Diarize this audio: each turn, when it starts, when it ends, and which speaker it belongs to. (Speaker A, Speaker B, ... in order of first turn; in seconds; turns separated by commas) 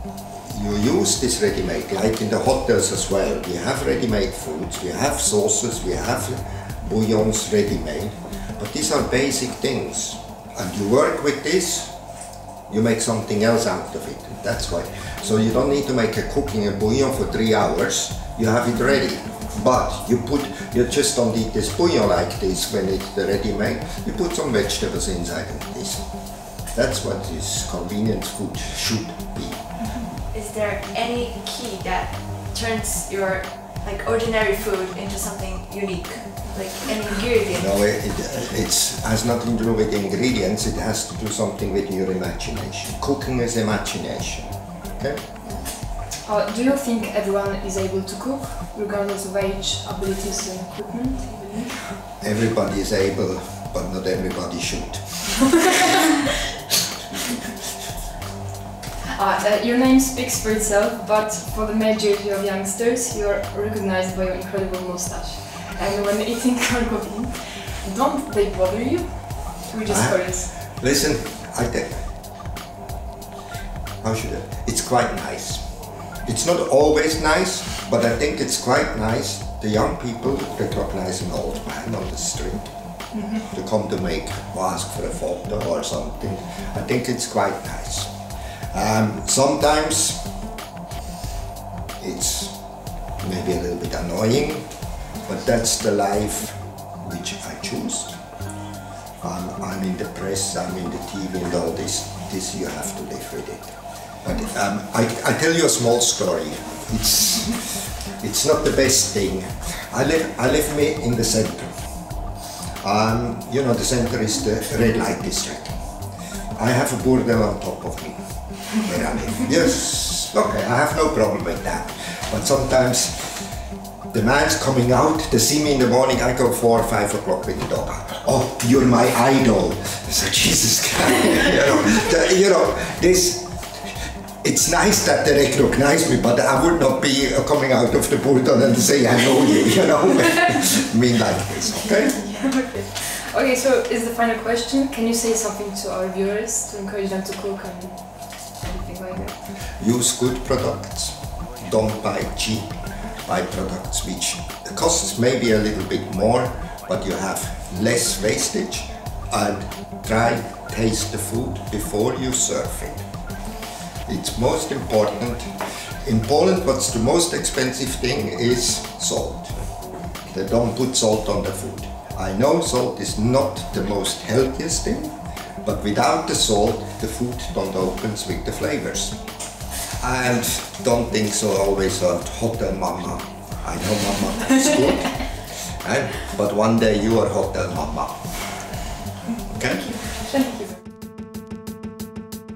Speaker A: 0.5-11.9, Speaker A: 12.7-29.8, Speaker B: 29.8-30.1, Speaker C: 30.3-37.8, Speaker A: 37.5-45.3, Speaker C: 45.4-45.7, Speaker B: 46.2-51.9, Speaker A: 52.2-55.7, Speaker B: 59.1-70.5, Speaker A: 69.9-72.1, Speaker A: 74.0-75.6, Speaker A: 76.2-82.7, Speaker B: 83.1-83.4, Speaker A: 83.4-88.1, Speaker A: 88.7-90.3, Speaker A: 92.0-92.5, Speaker A: 93.2-94.7, Speaker A: 95.2-98.1, Speaker A: 99.2-111.7, Speaker A: 112.8-115.7, Speaker A: 116.5-123.4, Speaker A: 124.1-133.6, Speaker A: 134.4-142.2, Speaker B: 142.1-149.4, Speaker A: 149.8-163.0, Speaker A: 164.1-169.6, Speaker A: 170.3-179.2, Speaker A: 180.0-188.6, Speaker A: 189.5-190.0, Speaker B: 190.1-190.8